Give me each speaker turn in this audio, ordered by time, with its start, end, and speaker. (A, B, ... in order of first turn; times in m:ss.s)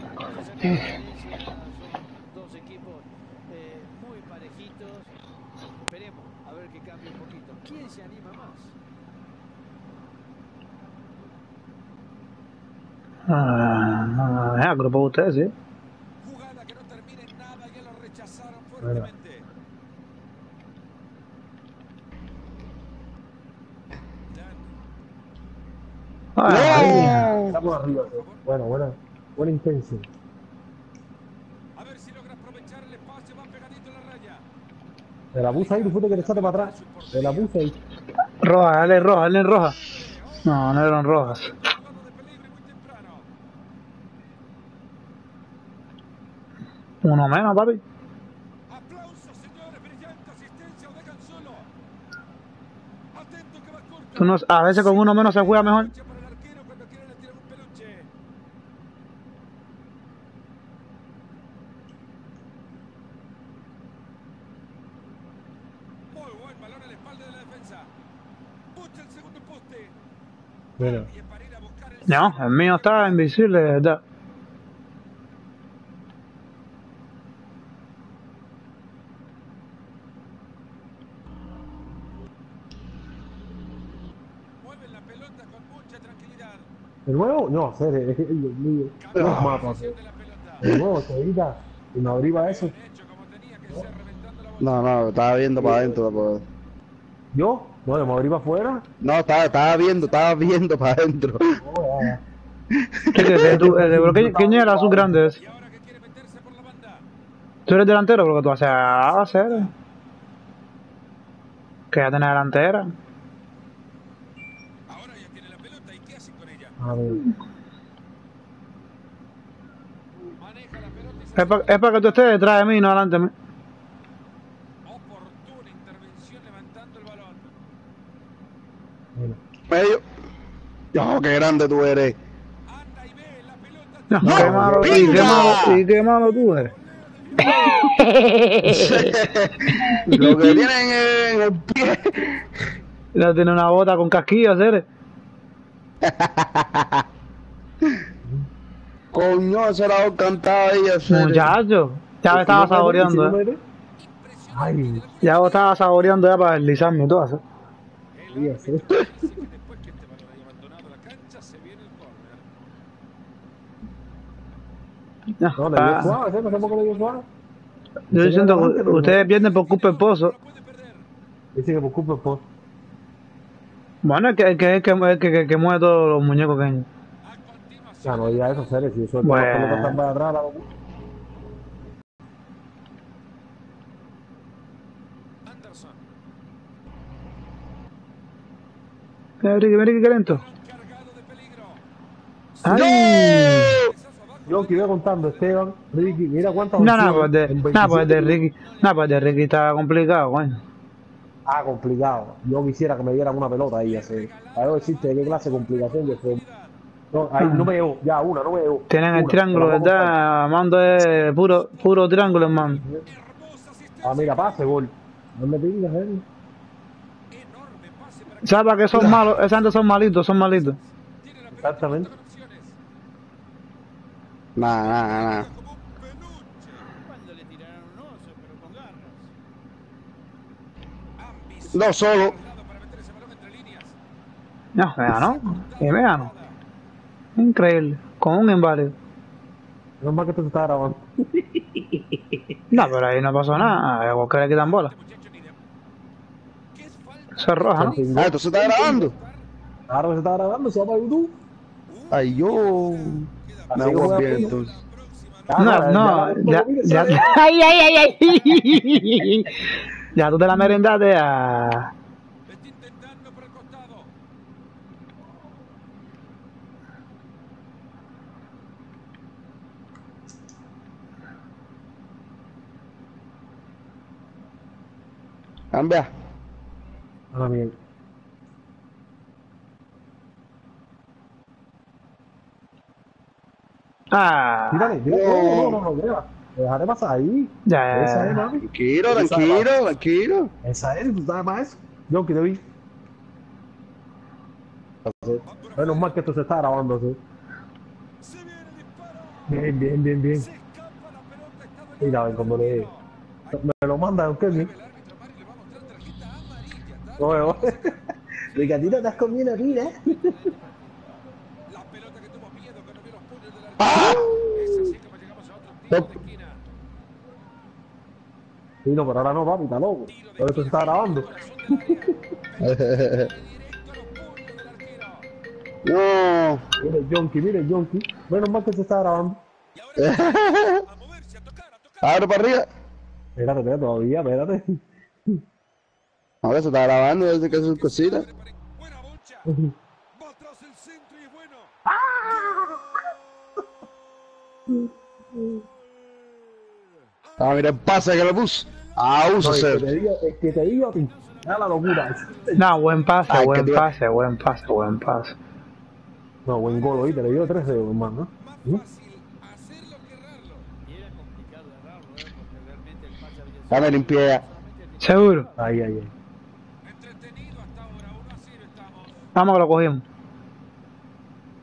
0:00.2-0:05.1 A
0:05.8-0:08.8 A
0:13.3-0:15.5 B
0:16.2-0:19.4 C
0:18.8-0:19.1 D
0:24.3-0:24.7 C
0:26.4-0:27.3 B
0:26.4-0:27.5 E
0:26.7-0:30.1 D
0:26.9-0:28.4 C
0:31.8-0:34.4 C
0:35.3-0:37.8 D
0:35.4-0:37.5 C
0:38.4-0:39.8 B
0:38.5-0:43.3 C
0:40.4-0:41.5 B
0:47.0-0:47.8 B
0:48.7-0:51.7 C
0:53.1-0:58.1 C
0:54.2-0:55.9 B
1:06.1-1:07.9 C
1:08.7-1:10.0 C
1:10.8-1:13.3 C
1:10.8-1:11.1 D
1:12.1-1:14.0 B
1:24.6-1:26.7 C
1:27.0-1:29.9 D
1:29.0-1:30.6 C
1:29.2-1:29.6 E
1:30.6-1:32.8 D
1:32.3-1:34.8 C
1:34.6-1:36.4 E
1:35.6-1:36.2 D
1:37.3-1:38.8 D
1:39.0-1:41.6 E
1:39.7-1:40.3 C
1:41.5-1:42.2 D
1:42.8-1:43.6 E
1:43.1-1:45.4 B
1:43.2-1:45.4 D
1:45.4-1:47.0 C
1:47.7-1:49.7 B
1:48.6-1:49.7 C
1:51.9-1:52.9 B
1:54.9-1:56.8 C
1:56.8-1:57.2 D
2:00.4-2:02.4 C
2:01.4-2:03.3 B
2:04.8-2:07.5 C
2:09.7-2:10.0 E
2:10.9-2:12.2 E
2:12.6-2:17.9 C
2:14.1-2:16.7 B
2:14.2-2:15.3 D
2:14.2-2:15.8 E
2:17.8-2:19.0 B
2:18.6-2:22.4 E
2:20.2-2:20.6 B
2:23.1-2:24.8 B
2:26.0-2:27.0 E
2:29.1-2:31.5 E
2:31.0-2:33.4 B
2:32.3-2:33.6 D
2:34.0-2:36.1 C
2:34.5-2:35.1 D
2:35.2-2:37.4 B
2:38.1-2:42.4 C
2:38.3-2:39.1 D
2:45.4-2:46.2 B
2:45.6-2:47.2 D
2:45.9-2:47.2 C
2:48.1-2:50.3 B
2:48.1-2:49.2 D
2:49.1-2:51.0 C
2:51.5-2:52.5 D
2:54.0-2:56.9 B
2:57.2-2:58.9 C
2:58.0-3:00.7 D
2:59.2-3:00.0 B
3:05.4-3:06.0 C
3:09.4-3:10.4 B
3:10.2-3:11.8 C
3:12.6-3:15.6 C
3:12.6-3:13.8 B
3:12.7-3:13.9 E
3:14.5-3:18.4 D
3:16.3-3:16.8 A
3:16.8-3:20.6 B
3:18.4-3:19.5 A
3:21.4-3:26.4 D
3:23.8-3:26.7 C
3:27.1-3:30.2 D
3:27.4-3:27.7 B
3:28.9-3:32.8 B
3:31.1-3:34.9 C
3:32.8-3:33.1 D
3:34.0-3:36.2 D
3:37.3-3:42.8 C
3:38.4-3:40.8 B
3:41.5-3:42.1 D
3:44.6-3:45.5 E
3:44.6-3:46.9 C
3:47.0-3:49.3 A
3:51.2-3:54.0 C
3:51.7-3:52.3 E
3:54.8-3:56.3 B
3:55.1-3:56.6 C
3:57.4-3:58.9 B
4:00.0-4:02.4 D
4:02.7-4:04.9 B
4:04.6-4:05.6 C
4:06.7-4:09.5 C
4:07.4-4:08.0 B
4:07.8-4:08.4 D
4:08.1-4:09.1 E
4:09.9-4:11.4 D
4:11.9-4:15.9 C
4:12.1-4:14.7 E
4:13.7-4:14.6 D
4:15.5-4:17.3 D
4:15.6-4:21.9 B
4:22.4-4:24.1 C
4:35.7-4:36.1 E
4:37.3-4:37.7 D
4:44.1-4:44.9 B
4:44.7-4:49.7 D
4:45.0-4:45.8 E
4:47.6-4:48.4 B
4:48.6-4:50.5 E
4:50.6-4:52.6 D
4:55.0-4:57.2 D
4:55.4-4:56.2 C
4:58.2-4:59.6 C
4:59.5-5:00.5 D
5:00.3-5:03.6 C
5:02.0-5:02.9 D
5:03.5-5:04.7 D
5:04.4-5:09.3 C
5:07.2-5:08.0 D
5:08.5-5:10.5 D
5:08.9-5:11.1 A
5:11.7-5:16.6 C
5:13.8-5:14.9 E
5:18.8-5:21.3 D
5:20.1-5:25.3 C
5:22.6-5:23.3 E
5:25.8-5:26.6 E
5:26.8-5:29.4 D
5:29.7-5:32.3 C
5:30.0-5:30.8 E
5:32.0-5:32.7 E
5:33.4-5:35.4 D
5:36.4-5:38.2 E
5:37.3-5:39.5 C
5:39.5-5:39.7 D
5:40.1-5:41.7 C
5:41.8-5:42.8 D
5:42.3-5:43.1 C
5:45.4-5:45.6 D
5:47.2-5:49.9 C
5:47.4-5:49.8 E
5:49.4-5:52.5 D
5:50.4-5:53.3 A
5:52.6-5:55.4 B
5:53.3-5:53.9 E
5:56.4-5:58.8 D
5:56.6-6:00.7 C
6:00.8-6:05.8 A
6:03.7-6:04.4 E
6:05.0-6:05.5 B
6:05.6-6:06.1 D
6:06.8-6:09.3 C
6:09.3-6:10.0 B